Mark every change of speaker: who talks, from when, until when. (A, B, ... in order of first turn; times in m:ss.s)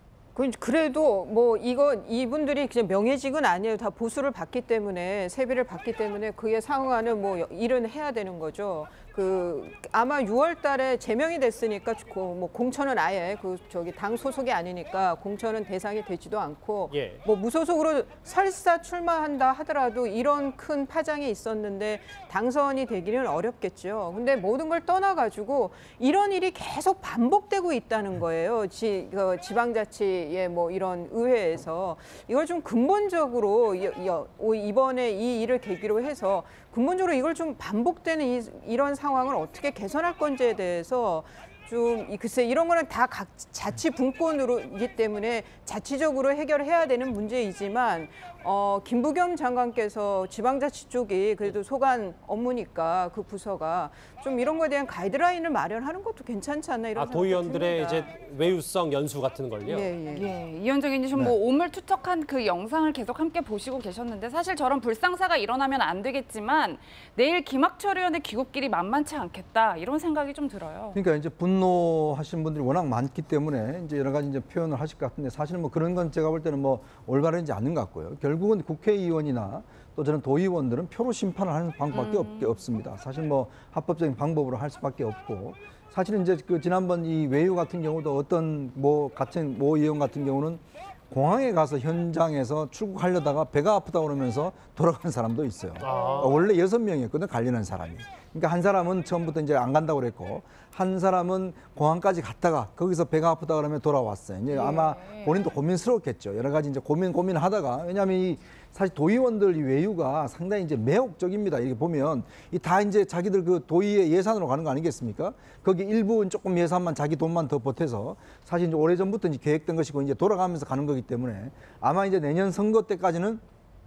0:00.4-0:58.1 A
0:16.9-0:17.2 B
0:57.0-1:00.0 B
0:59.6-1:00.3 A
1:00.1-1:11.0 C
1:10.9-2:03.4 D
1:22.1-1:22.4 C
1:35.8-1:36.4 B
1:36.0-1:36.2 C
1:44.5-1:45.3 C